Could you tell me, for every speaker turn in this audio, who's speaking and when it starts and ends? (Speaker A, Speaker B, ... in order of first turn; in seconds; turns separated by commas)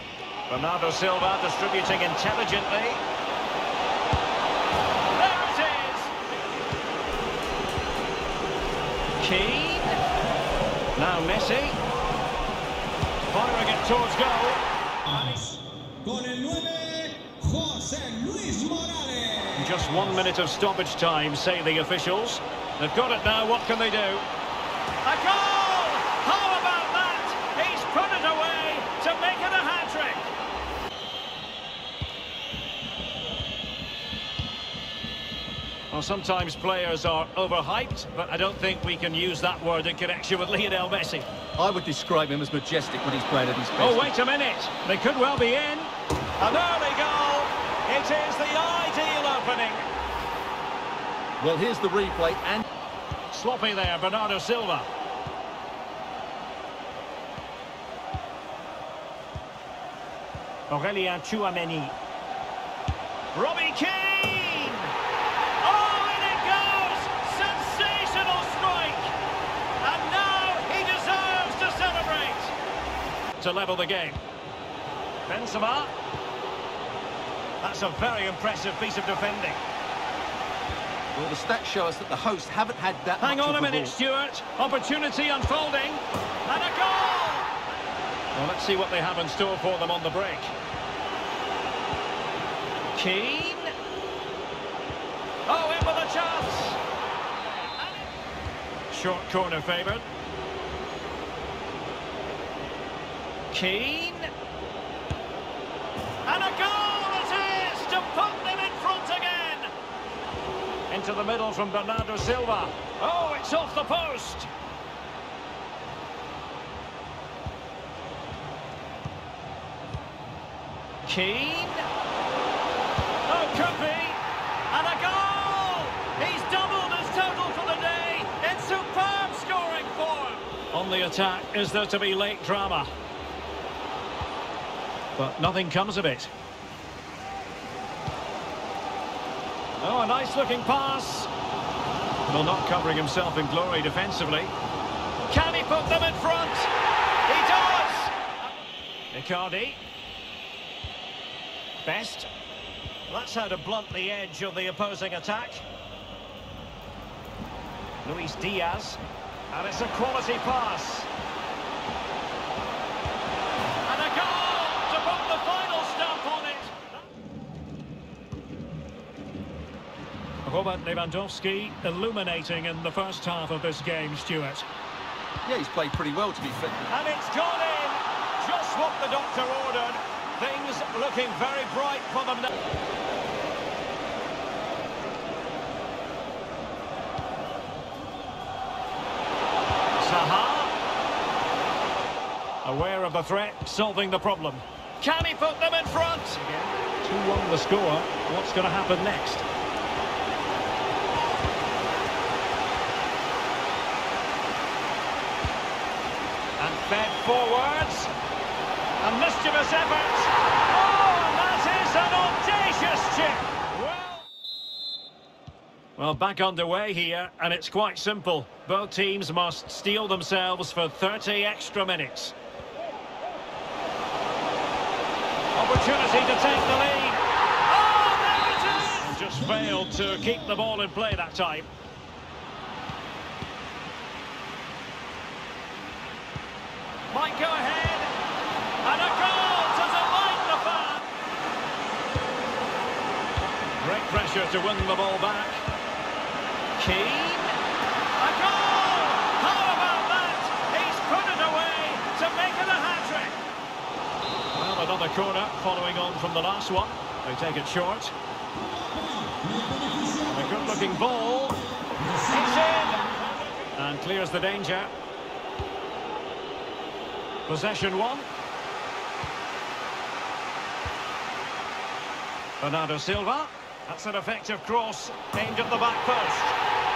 Speaker A: 0.5-3.0, Speaker A: 5.1-6.2, Speaker A: 9.2-10.0, Speaker A: 10.9-11.8, Speaker A: 13.3-15.5, Speaker B: 16.0-19.5, Speaker A: 19.5-24.3, Speaker A: 25.0-30.3, Speaker A: 35.9-41.3, Speaker C: 41.6-44.1, Speaker A: 43.8-49.9, Speaker C: 51.4-52.6, Speaker A: 53.3-54.9, Speaker A: 60.7-62.0, Speaker A: 63.3-64.9, Speaker A: 65.6-69.1, Speaker A: 69.8-72.5, Speaker A: 73.4-74.2, Speaker A: 75.2-75.9, Speaker A: 77.6-79.6, Speaker C: 81.1-83.9, Speaker A: 83.2-87.5, Speaker A: 88.3-90.5, Speaker A: 92.9-93.7, Speaker A: 95.5-96.8, Speaker A: 97.4-98.1, Speaker A: 98.9-100.0, Speaker A: 103.5-104.3, Speaker A: 106.2-109.7, Speaker A: 110.9-114.5, Speaker A: 121.0-121.9, Speaker A: 123.3-132.9, Speaker A: 135.2-136.3, Speaker A: 139.8-141.3, Speaker A: 142.3-144.5, Speaker A: 145.3-146.7, Speaker A: 147.3-148.2, Speaker A: 149.1-149.8, Speaker A: 151.8-152.3, Speaker A: 153.1-155.6, Speaker A: 158.0-159.0, Speaker A: 159.5-161.1, Speaker A: 163.8-167.0, Speaker A: 170.4-174.7, Speaker C: 175.4-176.9, Speaker A: 176.9-182.5, Speaker A: 190.0-190.7, Speaker A: 192.6-199.4, Speaker A: 206.6-208.1, Speaker A: 209.0-214.3, Speaker A: 215.9-222.3, Speaker A: 225.5-231.7, Speaker A: 237.1-238.1, Speaker A: 238.8-241.1, Speaker A: 243.8-245.6, Speaker A: 246.8-247.6, Speaker A: 248.2-253.4, Speaker A: 254.5-258.1, Speaker B: 259.3-260.0, Speaker A: 260.2-261.6, Speaker A: 262.1-264.9, Speaker A: 267.5-268.3, Speaker A: 272.6-276.6